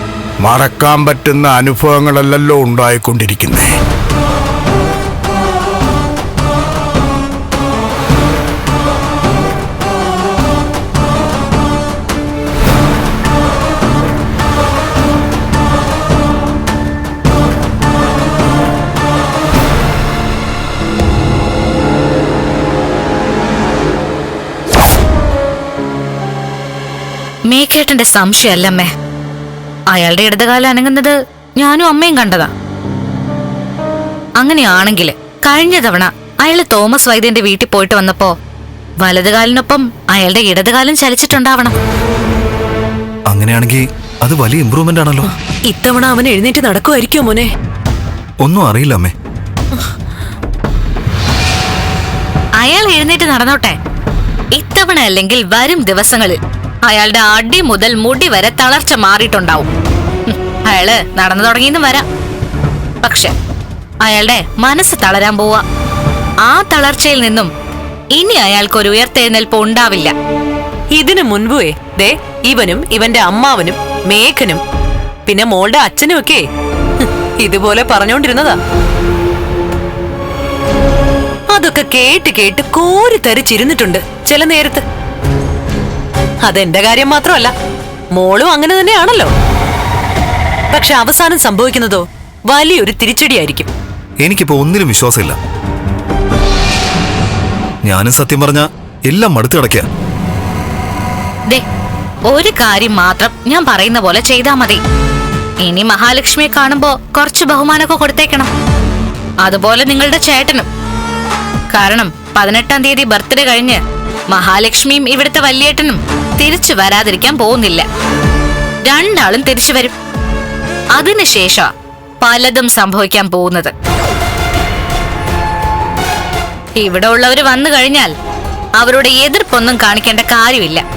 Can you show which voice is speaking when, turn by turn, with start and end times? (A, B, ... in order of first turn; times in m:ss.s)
0:00.4-0:03.7 A
0:27.5-0:28.9 B
0:29.9-0:32.5 B
0:34.4-0:38.3 B
0:39.0-0:41.8 B
0:43.3-0:45.3 C
0:45.7-0:47.5 D
0:48.4-0:49.1 C
0:52.6-0:53.8 B
0:54.6-0:59.7 B
1:00.3-1:02.0 B
1:03.0-1:03.3 B
1:04.0-1:05.6 B
1:06.4-1:07.5 B
1:08.1-1:10.1 B
1:10.9-1:14.6 D
1:15.2-1:16.4 D
1:17.0-1:18.6 D
1:21.5-1:24.8 D
1:26.4-1:27.5 D
1:28.1-1:29.3 D
1:30.7-1:33.7 D
1:34.2-1:35.4 C
1:37.8-1:39.9 C
1:42.3-1:44.8 B
1:45.6-1:48.5 B
1:49.4-1:50.6 B
1:51.8-1:53.8 B
1:54.3-1:57.8 B
1:58.9-1:59.9 B
2:01.0-2:01.6 B
2:02.2-2:03.7 B
2:06.8-2:08.1 B
2:08.8-2:10.8 B